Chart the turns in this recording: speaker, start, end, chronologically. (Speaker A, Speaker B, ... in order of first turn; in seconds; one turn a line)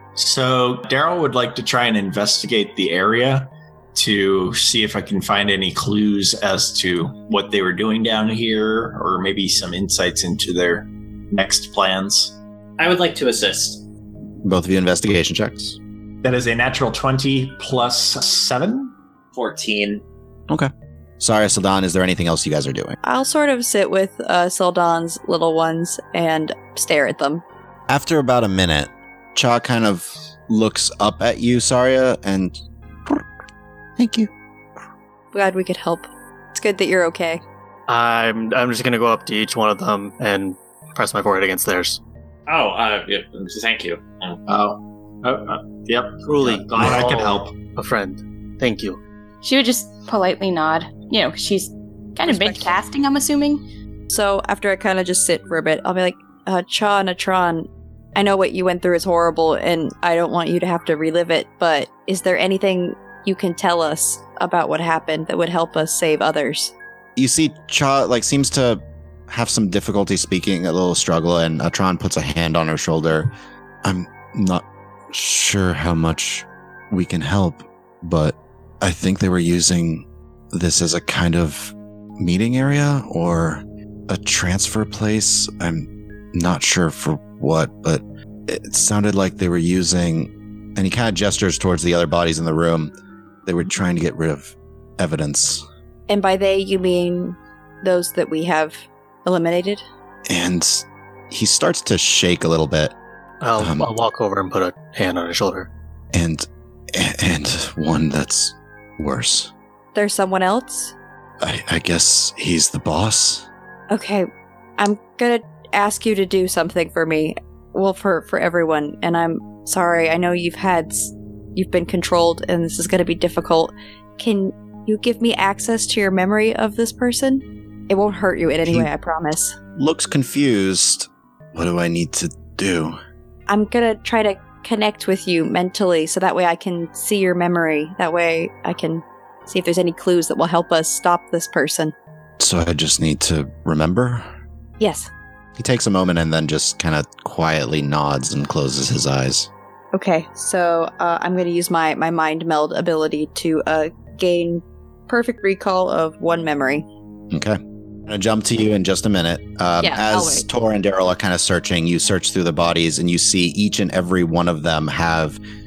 Speaker A: 0.1-12.3
Speaker B: 12.8-13.8
Speaker C: 14.4-15.8
Speaker A: 16.2-18.9
Speaker B: 19.3-20.0
Speaker C: 20.5-23.0
Speaker D: 23.0-27.4
Speaker C: 27.9-33.2
Speaker C: 34.0-34.3
Speaker D: 35.3-37.4
Speaker E: 37.9-42.0
Speaker B: 42.5-44.4
Speaker A: 44.5-47.5
Speaker E: 46.2-49.0
Speaker F: 49.4-53.6
Speaker D: 54.1-66.7
Speaker C: 67.2-73.3
Speaker C: 73.8-92.9
Speaker C: 93.4-95.6
Speaker D: 96.1-99.8
Speaker C: 100.3-102.9
Speaker E: 103.4-105.7
Speaker C: 103.6-103.9
Speaker C: 106.1-109.5
Speaker D: 109.9-110.9
Speaker C: 111.4-113.5
Speaker D: 113.9-114.3
Speaker D: 114.8-129.6
Speaker C: 129.8-133.0
Speaker D: 133.5-141.9
Speaker C: 142.4-144.2
Speaker D: 144.8-145.1
Speaker C: 145.6-149.5
Speaker D: 149.9-156.8
Speaker C: 157.3-165.4
Speaker D: 159.8-160.4